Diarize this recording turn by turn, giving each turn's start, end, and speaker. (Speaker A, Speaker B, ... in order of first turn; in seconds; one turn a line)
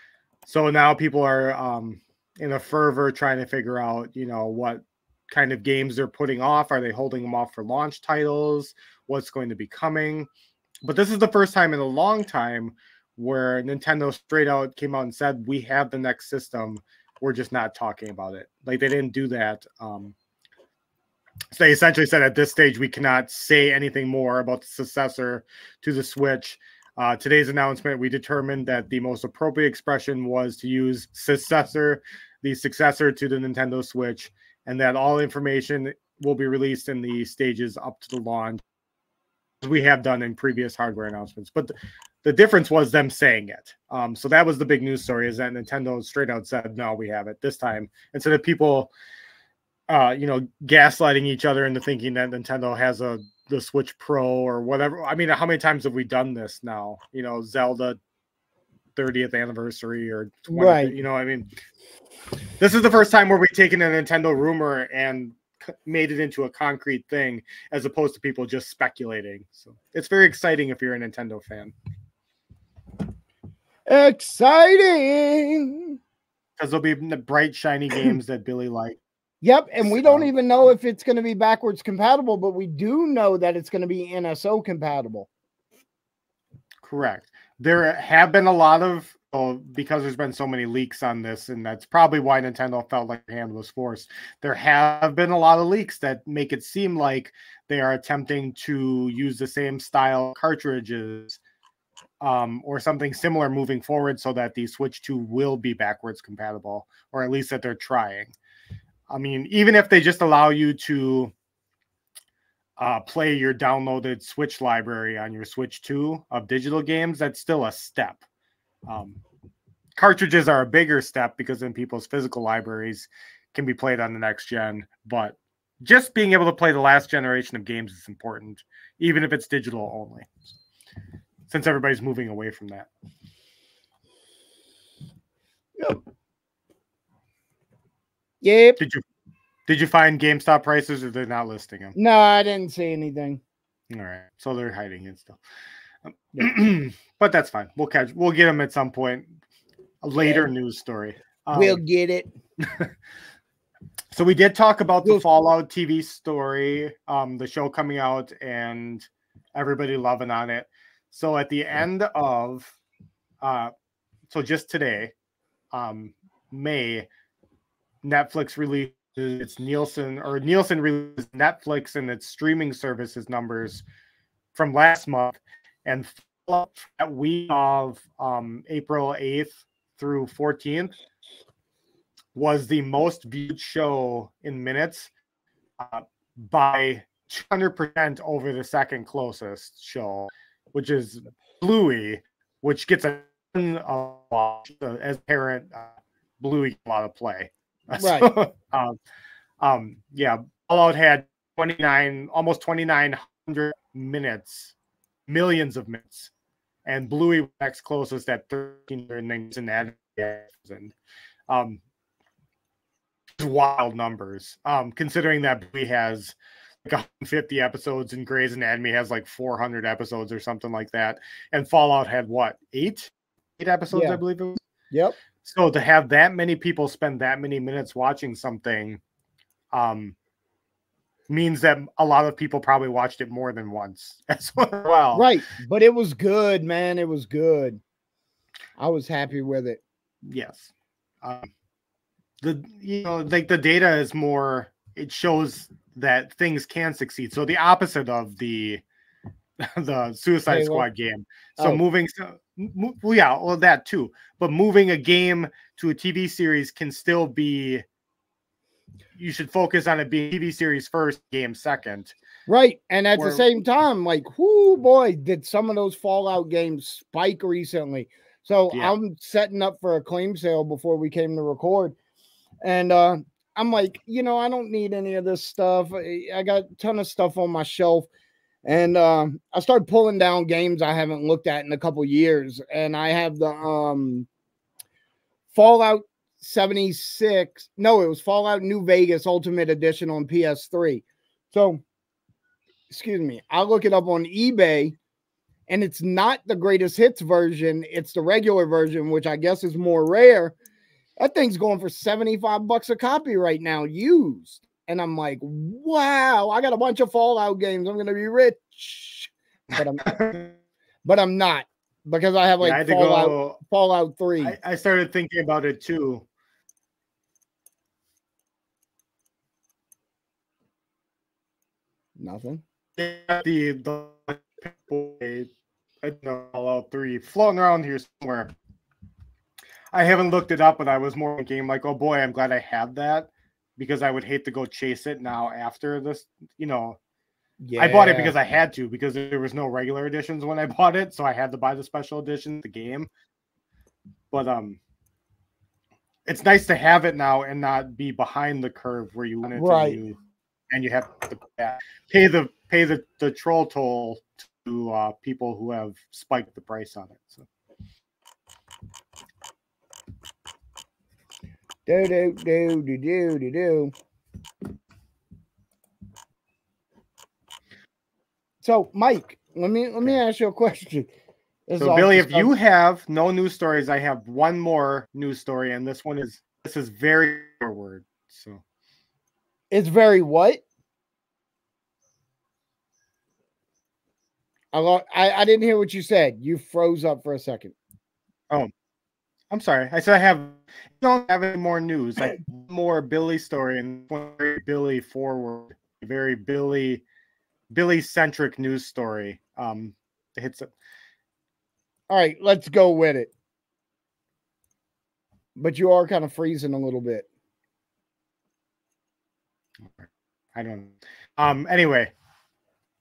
Speaker A: 0.4-10.3
Speaker A: 10.8-20.1
Speaker A: 21.5-38.6
Speaker A: 39.6-48.9
Speaker A: 49.9-58.0
Speaker A: 59.0-61.5
Speaker B: 60.5-60.9
Speaker A: 62.6-71.7
Speaker B: 73.9-76.0
Speaker A: 76.6-79.0
Speaker B: 79.4-85.3
Speaker A: 79.8-80.3
Speaker A: 86.8-101.4
Speaker A: 102.2-108.3
Speaker A: 109.1-111.3
Speaker A: 112.8-118.2
Speaker A: 118.9-119.2
Speaker A: 120.0-130.5
Speaker A: 131.5-132.9
Speaker B: 138.4-138.8
Speaker A: 138.8-139.0
Speaker A: 139.7-141.9
Speaker B: 141.9-143.4
Speaker A: 143.9-145.4
Speaker A: 146.0-149.3
Speaker A: 150.0-151.8
Speaker B: 150.2-150.5
Speaker B: 151.5-152.3
Speaker A: 152.6-152.9
Speaker A: 154.1-162.8
Speaker A: 163.4-163.7
Speaker A: 164.3-165.1
Speaker A: 165.7-167.1
Speaker A: 168.0-173.8
Speaker A: 174.5-180.9
Speaker A: 182.3-185.1
Speaker A: 185.8-199.0
Speaker B: 198.0-198.3
Speaker A: 199.6-204.7
Speaker A: 205.3-206.3
Speaker A: 206.8-210.9
Speaker A: 211.5-211.8
Speaker A: 213.4-224.6
Speaker B: 223.9-224.2
Speaker B: 224.9-225.2
Speaker A: 225.4-229.0
Speaker A: 229.7-230.2
Speaker A: 231.3-235.3
Speaker B: 235.1-237.8
Speaker B: 238.8-239.8
Speaker A: 240.2-240.7
Speaker A: 241.2-241.5
Speaker A: 242.4-248.8
Speaker A: 249.6-257.8
Speaker B: 250.5-250.8
Speaker A: 259.1-262.1
Speaker B: 262.5-271.9
Speaker A: 263.1-263.4
Speaker B: 272.6-278.1
Speaker B: 278.6-284.3
Speaker B: 285.5-291.8
Speaker B: 292.9-295.0
Speaker B: 295.7-300.5
Speaker B: 301.2-310.2
Speaker A: 309.7-310.5
Speaker B: 311.0-314.6
Speaker A: 312.6-313.6
Speaker A: 314.4-316.2
Speaker B: 322.2-322.6
Speaker A: 323.0-325.5
Speaker A: 326.0-328.5
Speaker A: 329.9-337.0
Speaker B: 337.6-338.3
Speaker A: 337.8-343.1
Speaker A: 344.3-344.8
Speaker A: 346.2-350.2
Speaker B: 349.6-350.0
Speaker A: 350.7-357.5
Speaker B: 361.9-363.9
Speaker B: 368.6-371.1
Speaker B: 371.7-372.5
Speaker A: 371.8-378.6
Speaker B: 379.7-380.6
Speaker B: 384.7-387.7
Speaker A: 389.5-397.0
Speaker A: 397.7-400.7
Speaker B: 402.1-403.3
Speaker B: 405.6-407.2
Speaker A: 409.8-412.1